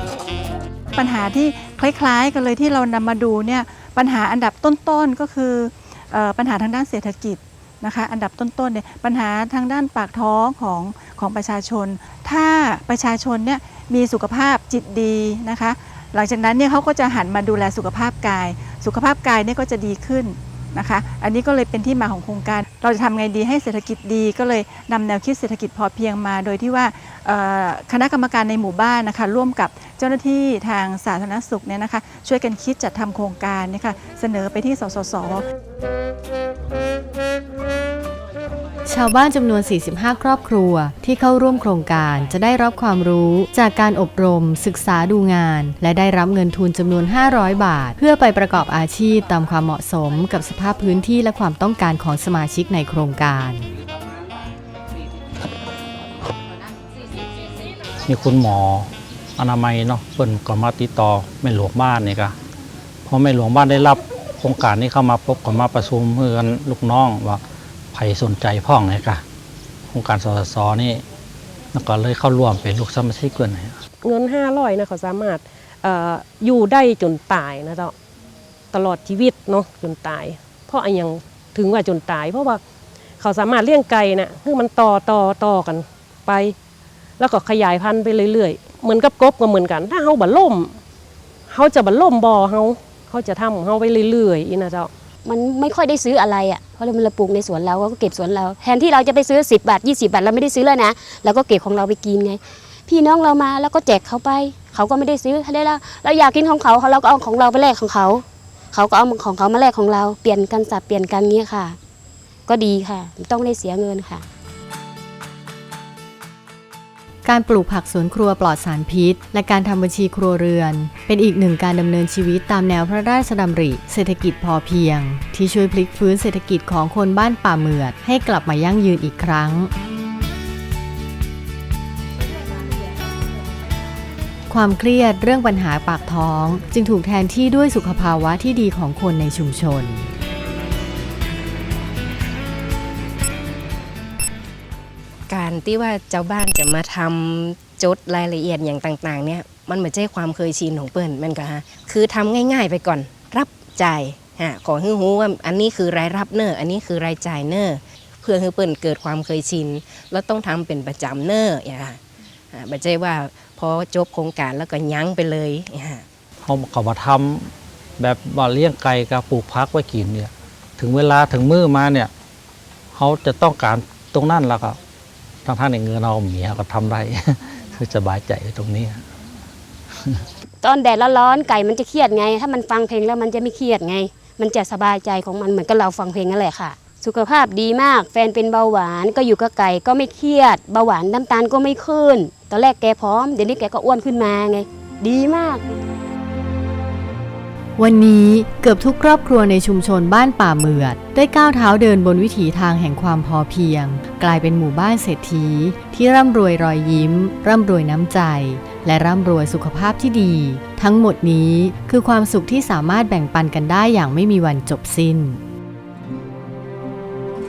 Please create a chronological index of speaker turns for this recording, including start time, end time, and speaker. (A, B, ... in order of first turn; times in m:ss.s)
0:01.0-0:35.4 A
0:38.8-0:53.7 B
0:58.0-1:02.3 C
1:03.0-1:07.4 C
1:07.9-1:09.2 C
1:09.9-1:11.0 C
1:11.7-1:13.8 C
1:14.0-1:17.9 D
1:18.7-1:22.6 D
1:23.2-1:26.5 D
1:27.2-1:30.8 D
1:31.5-1:34.9 D
1:35.2-1:51.8 E
1:52.5-1:54.2 E
1:57.2-2:09.7 B
2:14.5-2:20.1 B
2:25.3-2:42.0 F
2:42.5-2:46.0 F
2:46.4-2:52.1 C
2:52.9-2:54.8 C
2:55.4-2:59.0 C
3:00.6-3:15.6 E
3:17.8-3:35.4 B